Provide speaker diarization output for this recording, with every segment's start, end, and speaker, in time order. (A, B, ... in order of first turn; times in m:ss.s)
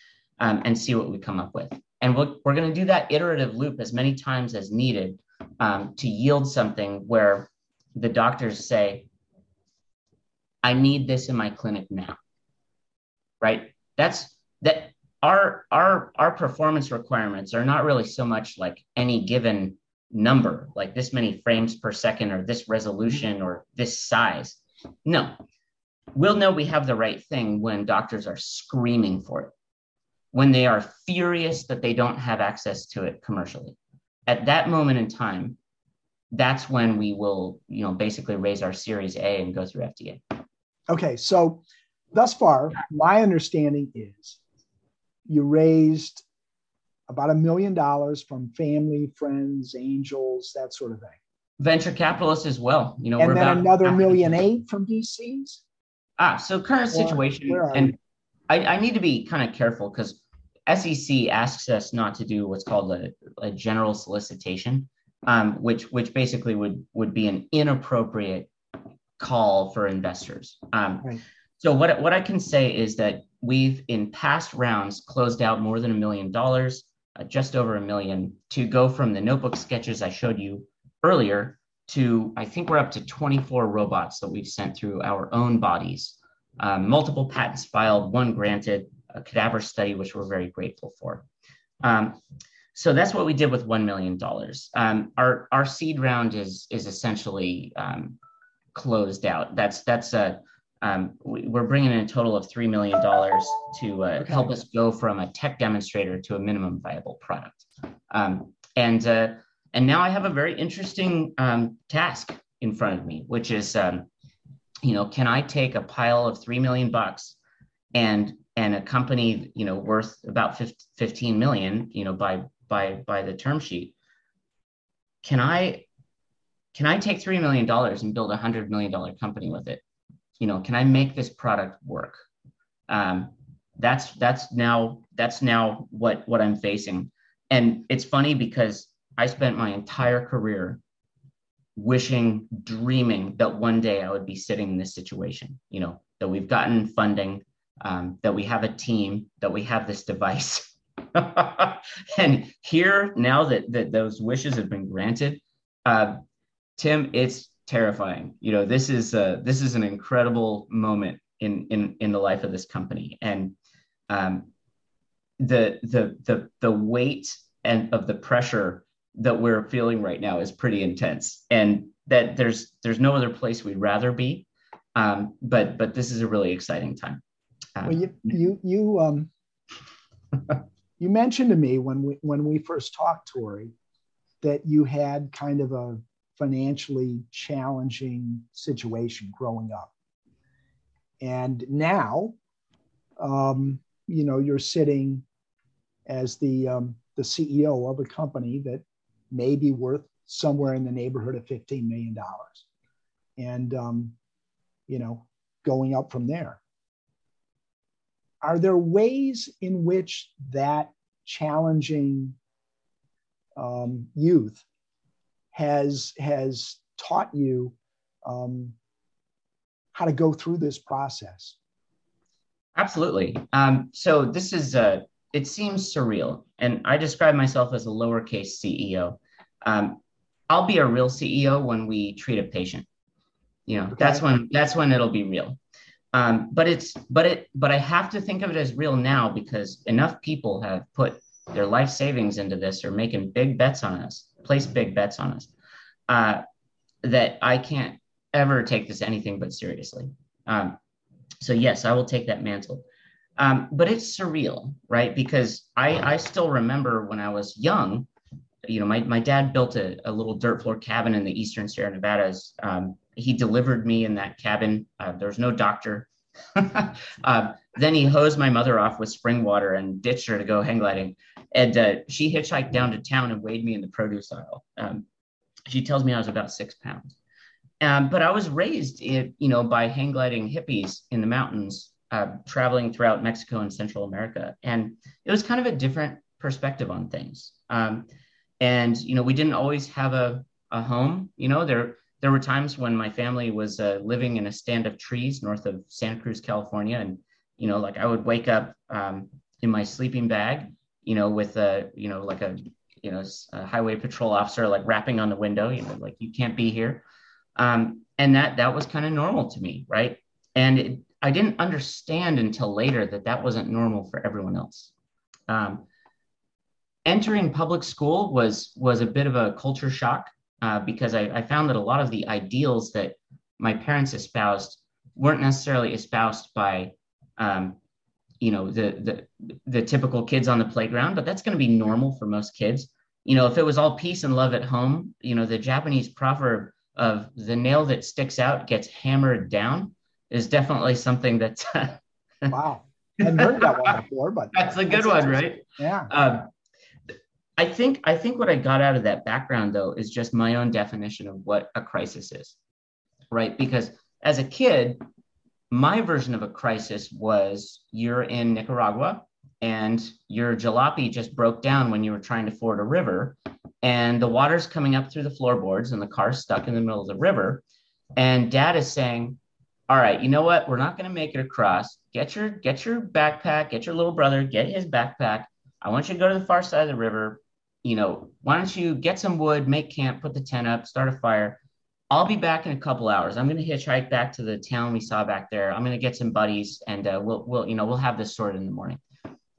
0:00.4-0:09.1 A
0:10.6-0:12.2 A
0:13.4-0:25.4 A
0:26.1-0:29.5 A
0:30.3-0:35.6 A
0:36.3-0:40.2 A
0:40.9-0:44.4 B
0:45.3-0:46.2 B
0:47.1-0:51.2 B
0:51.6-0:54.3 A
0:53.2-0:55.6 B
0:56.2-0:58.0 A
0:56.9-0:58.0 B
0:58.5-1:08.5 A
1:09.2-1:31.3 A
1:31.8-1:32.2 A
1:32.7-1:38.2 A
1:38.7-1:54.1 A
1:44.2-1:44.5 B
1:54.8-1:57.4 A
1:57.9-2:04.0 A
2:05.2-2:05.9 A
2:06.7-2:09.8 A
2:10.4-2:12.2 A
2:12.9-2:20.8 A
2:21.8-2:36.2 A
2:36.8-2:43.6 A
2:44.1-2:44.5 A
2:45.4-2:57.2 A
2:57.8-2:58.3 A
2:57.8-2:59.3 B
3:01.0-3:03.7 B
3:04.4-3:09.9 B
3:11.2-3:12.4 B
3:13.2-3:15.2 B
3:16.1-3:22.7 B
3:23.4-3:24.2 B
3:24.9-3:26.6 B
3:28.4-3:32.4 B
3:33.6-3:34.6 B
3:35.5-3:38.8 B
3:39.9-3:41.6 B
3:42.8-3:52.9 A
3:53.7-3:55.6 A
3:54.0-3:54.2 B
3:56.1-4:05.5 A
4:06.1-4:06.4 A
4:07.0-4:10.8 A
4:11.4-4:12.8 A
4:13.4-4:18.1 A
4:18.6-4:35.0 A
4:35.7-4:37.2 A
4:37.8-4:48.1 A
4:48.6-5:07.0 A
5:07.6-5:14.9 A
5:15.5-5:15.9 A
5:17.0-5:27.8 A
5:28.4-5:42.5 A
5:42.5-5:46.1 B
5:43.2-5:44.0 A
5:44.5-5:46.5 A
5:47.6-5:52.6 A
5:53.3-5:55.0 A
5:55.7-6:07.6 A
6:08.2-6:21.6 A
6:22.1-6:29.0 A